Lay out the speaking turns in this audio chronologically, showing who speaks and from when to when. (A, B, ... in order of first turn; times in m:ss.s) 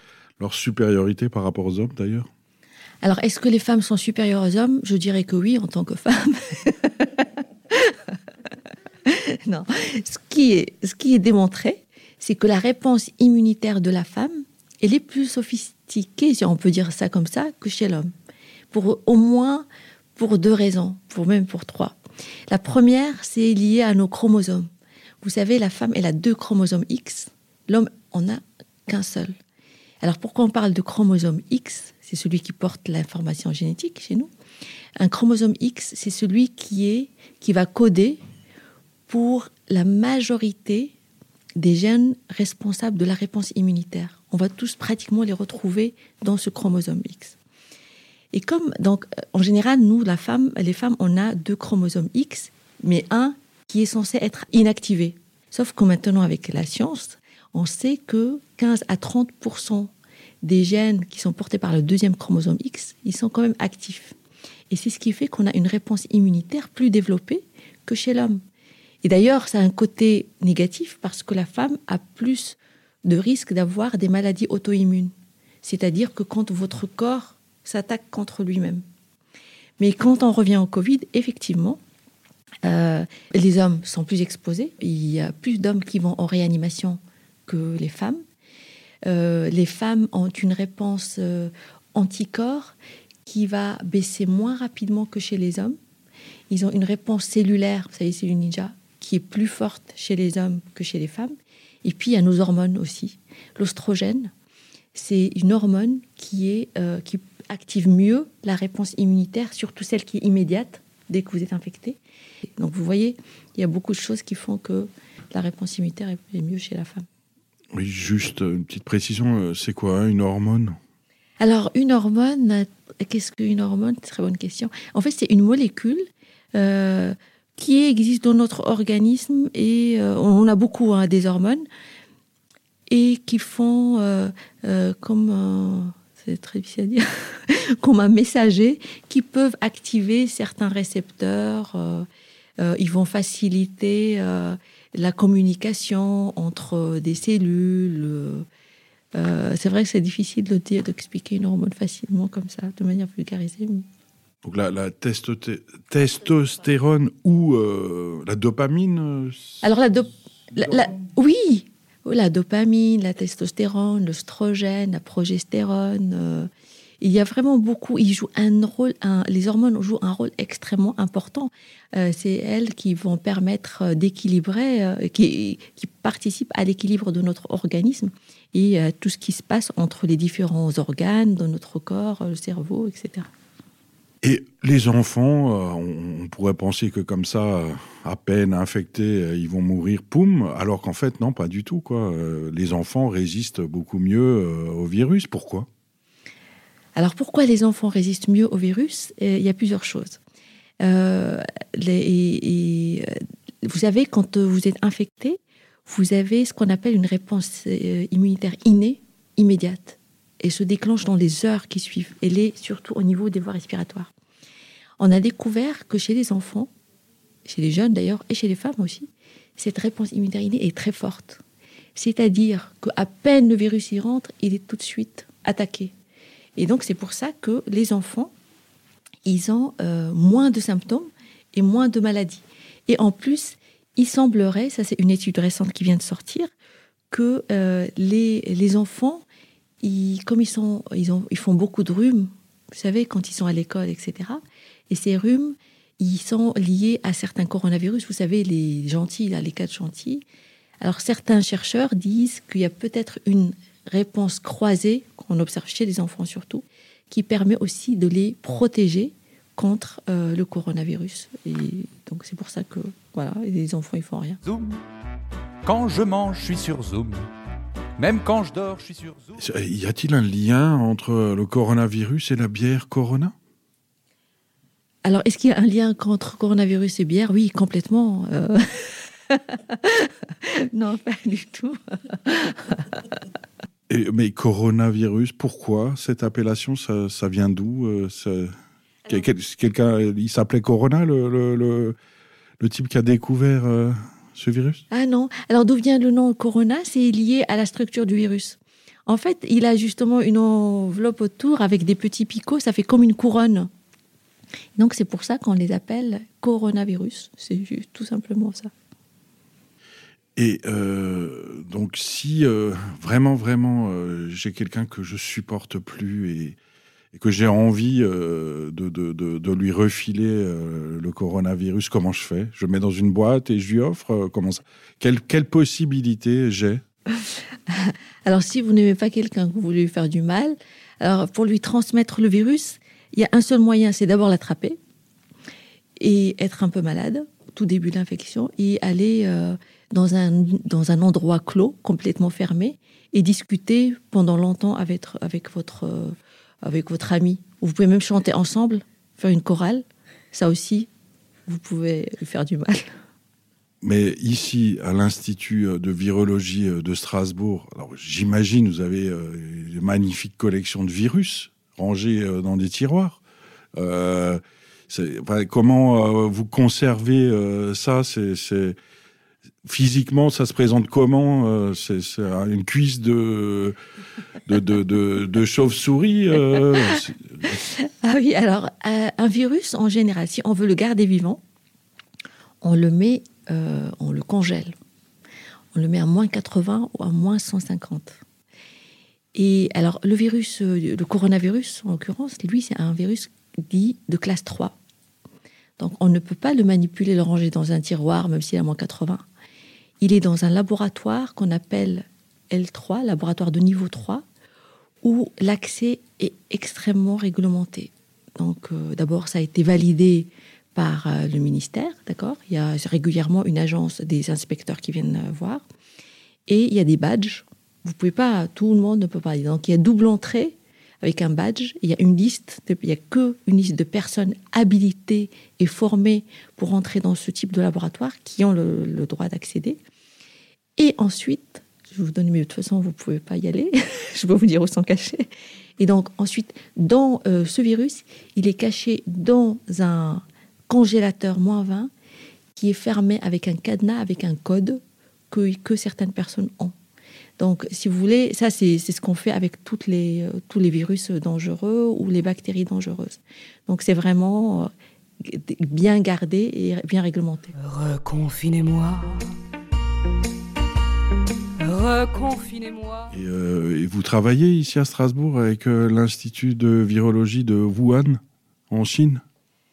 0:00.4-0:02.3 A
0:03.0-0:08.0 B
0:09.0-0:18.1 B
0:18.7-0:22.0 B
0:22.5-0:24.7 B
0:25.2-0:29.4 B
0:30.0-0:34.3 B
0:35.0-0:38.2 B
0:39.1-0:40.9 B
0:41.6-0:47.4 B
0:48.3-0:59.9 B
1:00.4-1:04.1 B
1:04.7-1:08.4 B
1:09.0-1:15.1 B
1:15.6-1:18.8 B
1:19.8-1:21.8 B
1:22.6-1:28.2 B
1:29.0-1:35.8 B
1:36.5-1:41.3 B
1:41.8-1:44.3 B
1:44.9-1:52.0 B
1:52.6-1:57.0 B
1:57.7-2:00.8 A
2:01.4-2:11.6 B
2:12.9-2:22.1 B
2:22.6-2:28.4 B
2:29.1-2:33.8 B
2:34.4-2:39.6 A
2:39.6-2:46.5 B
2:47.0-3:03.3 B
3:04.2-3:15.7 A
3:17.0-3:20.2 B
3:20.8-3:34.1 B
3:35.0-3:36.7 B
3:37.4-3:41.4 B
3:42.0-3:45.9 B
3:46.6-3:48.3 B
3:49.2-3:56.5 B
3:57.1-3:59.2 B
3:59.8-4:10.2 B
4:10.8-4:24.4 B
4:24.4-4:24.8 C
4:25.6-4:27.3 C
4:28.0-4:29.4 C
4:29.4-4:33.3 A
4:35.0-4:43.0 B
4:43.9-4:48.5 A
4:49.1-4:52.0 A
4:52.6-4:54.8 A
4:54.9-5:03.7 B
5:04.8-5:08.7 B
5:10.4-5:16.6 A
5:17.1-5:26.8 A
5:27.7-5:34.8 B
5:36.0-5:50.9 B
5:51.5-5:52.9 B
5:53.8-6:03.2 A
6:03.8-6:08.8 A
6:09.6-6:13.8 A
6:14.4-6:17.5 A
6:17.6-6:21.4 B
6:22.6-6:24.7 B
6:25.7-6:28.2 B
6:29.3-6:34.8 B
6:35.8-6:39.2 B
6:40.0-6:44.2 B
6:45.0-6:55.6 B
6:56.5-7:09.8 B
7:10.8-7:15.3 B
7:15.8-7:21.9 B
7:22.5-7:26.7 B
7:27.4-7:37.5 B
7:37.6-7:39.3 D
7:41.6-7:43.1 D
7:43.1-7:49.2 A